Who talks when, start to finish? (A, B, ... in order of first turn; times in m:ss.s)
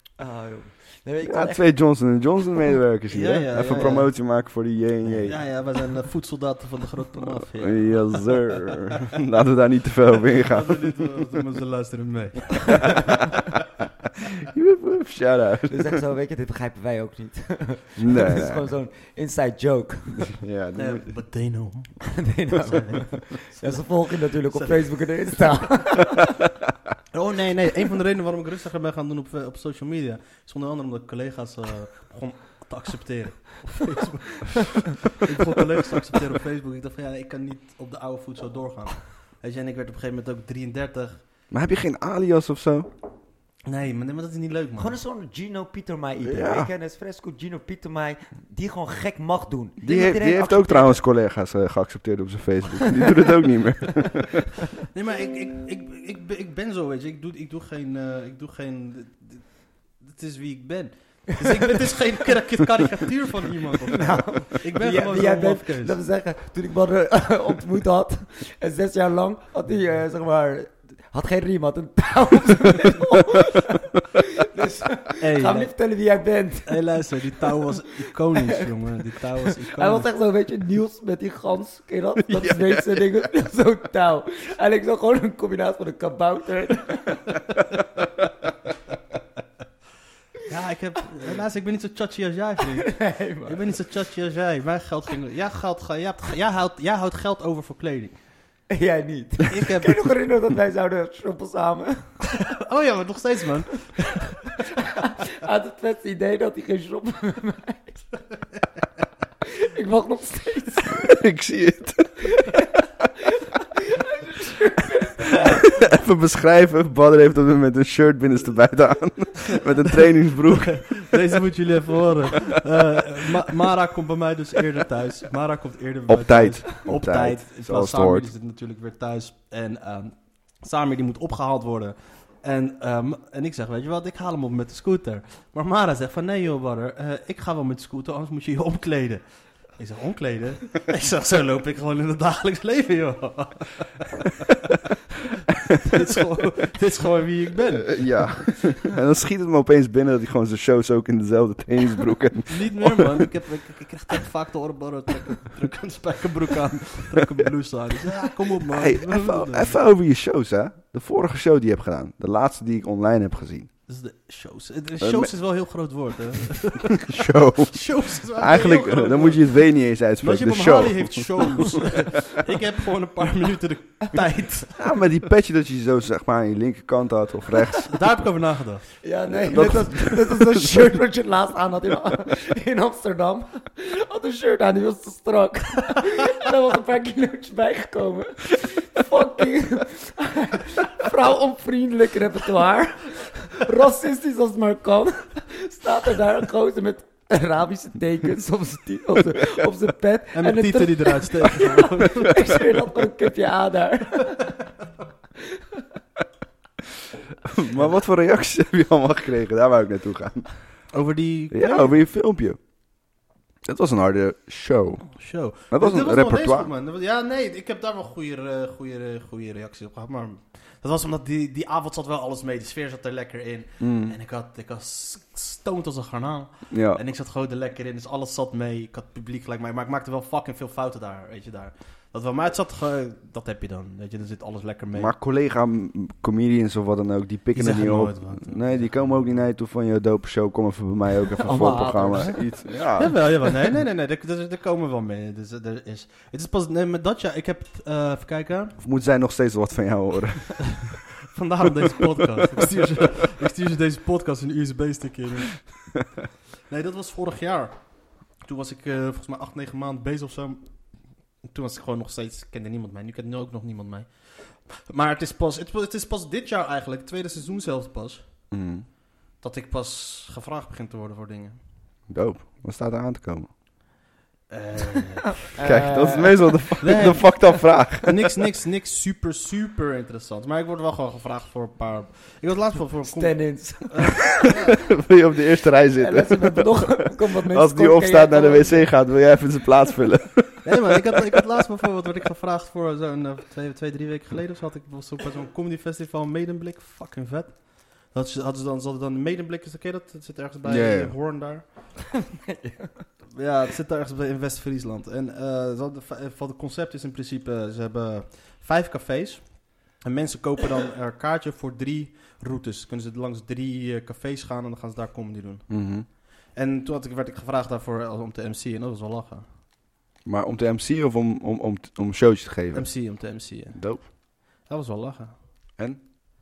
0:00.2-0:01.7 A
0:01.2-0:05.5 B
0:03.1-0:04.3 C
0:05.1-0:08.6 C
0:07.6-0:11.0 B
0:10.4-0:13.3 C
0:14.5-0:16.0 B
0:15.7-0:20.4 A
0:18.0-0:18.7 B
0:20.3-0:21.1 B
0:20.8-0:24.0 C
0:22.1-0:26.3 A
0:24.5-0:25.7 C
0:27.1-0:41.2 C
0:41.5-0:42.9 B
0:43.6-0:45.0 C
0:44.8-0:51.0 A
0:46.2-0:46.7 B
0:49.8-0:54.5 B
0:54.9-1:06.0 C
1:03.9-1:17.0 A
1:15.2-1:15.8 C
1:16.7-1:20.1 C
1:19.7-1:27.3 A
1:22.3-1:23.0 B
1:30.5-1:38.2 C
1:32.8-1:33.6 A
1:38.7-1:42.2 A
1:39.5-1:40.1 C
1:42.5-1:44.3 C
1:44.7-1:48.2 A
1:49.5-1:51.1 A
1:50.9-1:52.4 B
1:52.3-1:52.6 A
1:53.6-1:55.6 A
1:55.5-2:01.2 B
2:00.7-2:24.4 C
2:06.1-2:08.3 B
2:25.8-2:28.3 C
2:27.9-2:33.3 B
2:32.5-2:39.8 C
2:38.7-2:43.7 B
2:43.9-2:47.2 C
2:45.0-2:45.3 B
2:47.1-2:52.0 B
2:47.7-2:49.4 C
2:50.2-2:54.9 C
2:54.8-2:58.0 B
2:57.9-2:58.9 C
2:59.0-3:24.6 A
2:59.3-3:00.9 B
3:20.4-3:22.8 C
3:27.5-3:30.5 B
3:30.9-3:32.0 C
3:31.5-3:32.6 B
3:33.7-3:35.1 B
3:35.1-3:55.1 C
3:35.7-3:36.7 B
3:43.8-3:44.2 B
3:46.7-3:47.0 B
3:55.0-4:03.2 B
3:57.5-3:59.4 C
4:01.4-4:08.8 C
4:01.5-4:02.3 A
4:08.8-4:11.0 B
4:11.3-4:15.8 C
4:16.7-4:28.2 C
4:28.5-4:28.9 B
4:29.4-4:31.6 C
4:32.1-4:33.5 B
4:34.5-4:35.5 C
4:35.4-4:36.6 A
4:35.6-4:38.3 B
4:36.8-4:44.8 C
4:43.1-4:44.5 A
4:44.9-4:50.8 B
4:46.0-4:48.9 A
4:50.6-5:01.9 C
5:00.6-5:01.2 B
5:02.5-5:03.0 A
5:03.4-5:15.8 C
5:15.7-5:16.1 B
5:16.5-5:19.5 C
5:20.2-5:22.9 B
5:22.7-5:25.3 C
5:23.7-5:24.1 B